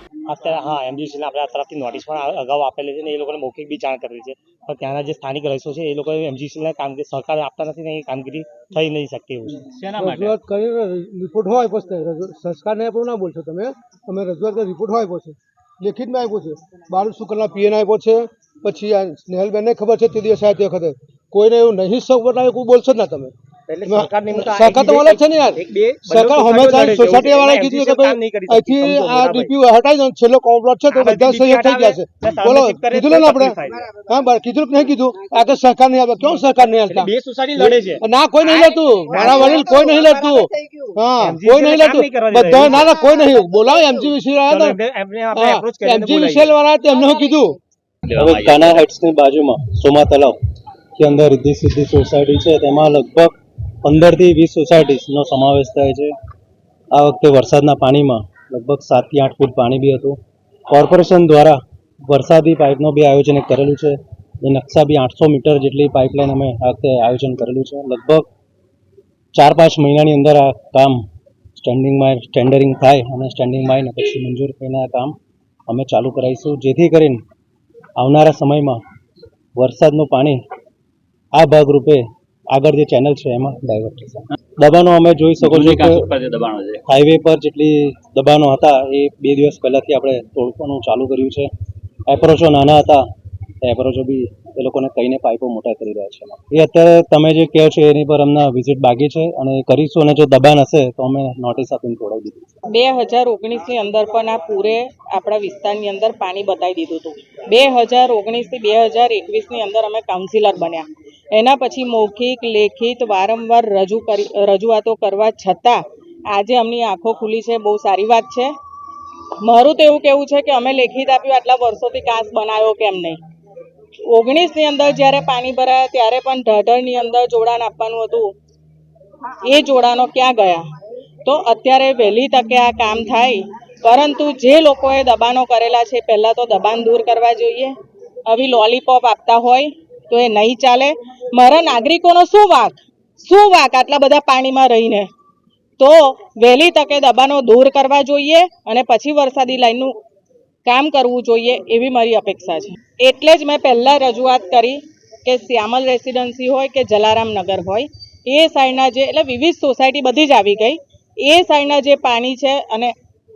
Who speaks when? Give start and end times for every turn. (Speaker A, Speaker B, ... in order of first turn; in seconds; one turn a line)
Speaker A: 0.3-10.2
Speaker B: 9.9-23.3
Speaker A: 23.7-29.5
Speaker B: 23.8-44.8
Speaker A: 30.9-33.8
Speaker A: 36.2-39.7
Speaker A: 41.2-42.9
Speaker A: 44.5-46.5
Speaker B: 45.3-47.6
Speaker C: 48.1-48.8
Speaker D: 48.1-50.4
Speaker D: 51.0-56.1
Speaker D: 56.9-60.2
Speaker D: 60.7-68.3
Speaker D: 69.3-71.0
Speaker D: 71.6-75.1
Speaker D: 75.7-77.2
Speaker D: 78.0-78.8
Speaker D: 79.5-80.4
Speaker D: 81.3-86.2
Speaker C: 85.4-86.8
Speaker D: 86.9-91.5
Speaker D: 92.1-93.0
Speaker D: 93.6-102.5
Speaker E: 102.7-118.5
Speaker E: 119.4-123.2
Speaker E: 124.1-128.3
Speaker E: 129.4-130.7
Speaker E: 131.2-137.7
Speaker E: 138.3-145.1
Speaker E: 145.8-149.9
Speaker E: 150.6-162.9